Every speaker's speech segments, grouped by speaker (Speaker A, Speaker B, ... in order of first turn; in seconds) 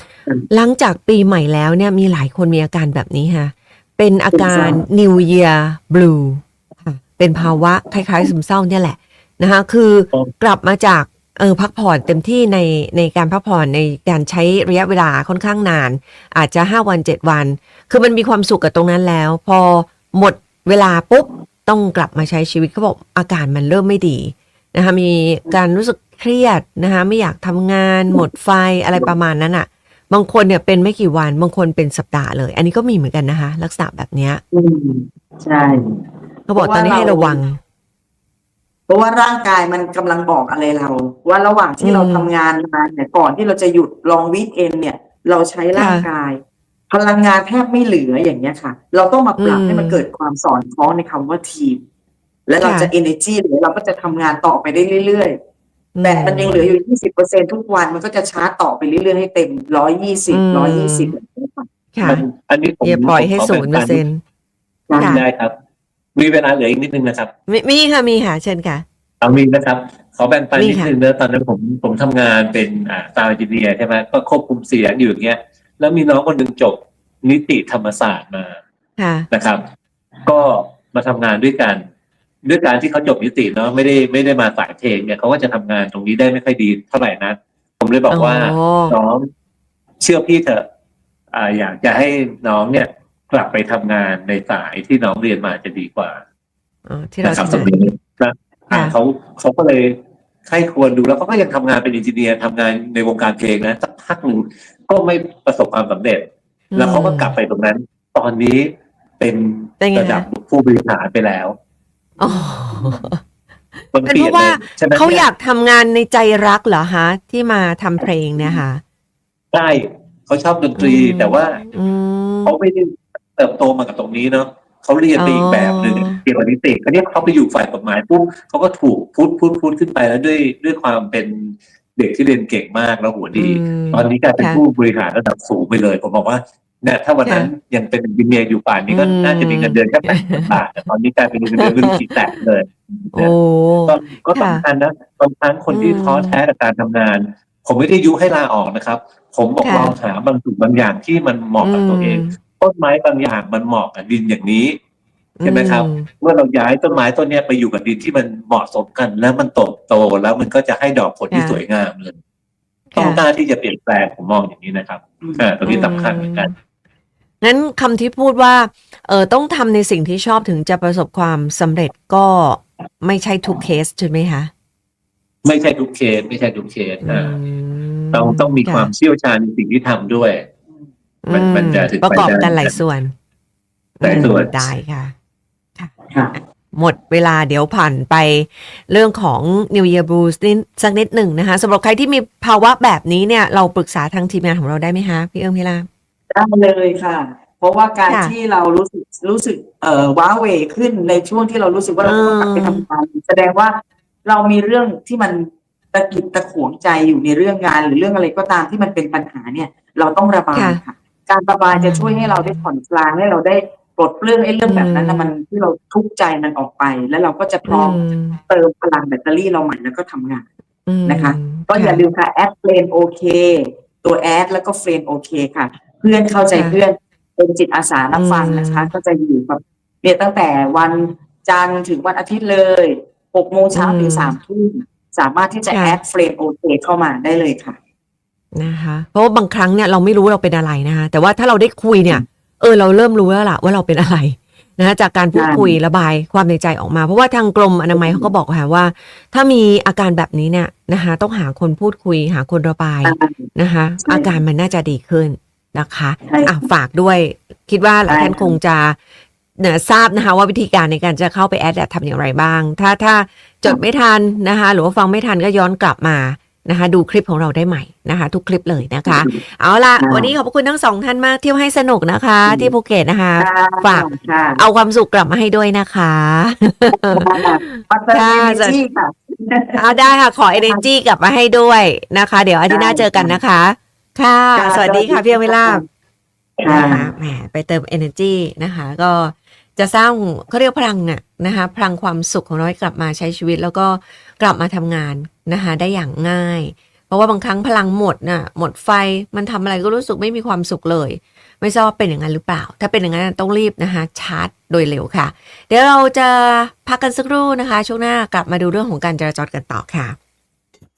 Speaker A: 0.5-34.4, 36.5-37.6, 41.8-42.3, 45.8-46.1, 49.4-50.0, 52.6-52.9, 56.0-56.7, 60.3-61.1, 62.0-62.2, 62.8-64.2, 65.0-65.2, 67.5-68.8, 70.6-70.9, 79.0-79.3, 88.1-89.0, 96.9-97.7, 106.7-107.3, 109.8-110.3, 112.2-113.2, 113.8-118.8, 120.8-122.5, 125.2-126.2, 133.3-134.6, 138.9-140.5, 141.6-142.0, 143.1-144.6, 145.7-146.4, 149.6-149.9, 151.6-152.3, 155.4-156.1, 161.3-161.6, 162.9-163.2, 165.7-166.5, 167.4-174.5, 177.0-178.9, 181.2-183.1, 184.0-185.1, 186.8-195.9, 198.1-198.3, 202.0-202.8, 210.6-210.8, 211.7-212.6, 214.7-215.3, 217.7-218.4, 220.9-222.0, 228.1-228.9, 233.7-234.3, 235.7-236.0, 238.6-259.0, 259.6-278.8, 279.8-285.8, 286.6-310.2
Speaker B: 4.3-4.8, 34.5-36.0, 36.5-37.4, 38.9-51.8, 52.5-55.4, 56.0-61.7, 64.9-65.2, 112.2-113.0, 196.3-220.4, 221.1-237.8, 245.3-245.8, 247.9-248.3, 253.1-253.5, 256.3-256.6, 258.1-258.5, 269.1-269.4, 270.0-270.3, 272.5-272.7, 273.4-274.6, 277.0-279.9, 280.5-280.8, 282.7-283.4, 284.6-285.8, 286.6-287.1
Speaker C: 62.0-64.0, 65.0-65.5, 66.2-67.3, 69.2-78.6, 79.3-79.7, 80.2-81.8, 82.4-89.3, 90.0-90.7, 91.3-96.2, 97.2-111.6, 113.9-115.2, 119.5-121.6, 122.5-143.3, 143.9-154.8, 155.4-162.2, 163.0-166.5, 175.4-177.4, 178.1-180.5, 181.3-182.8, 184.0-184.7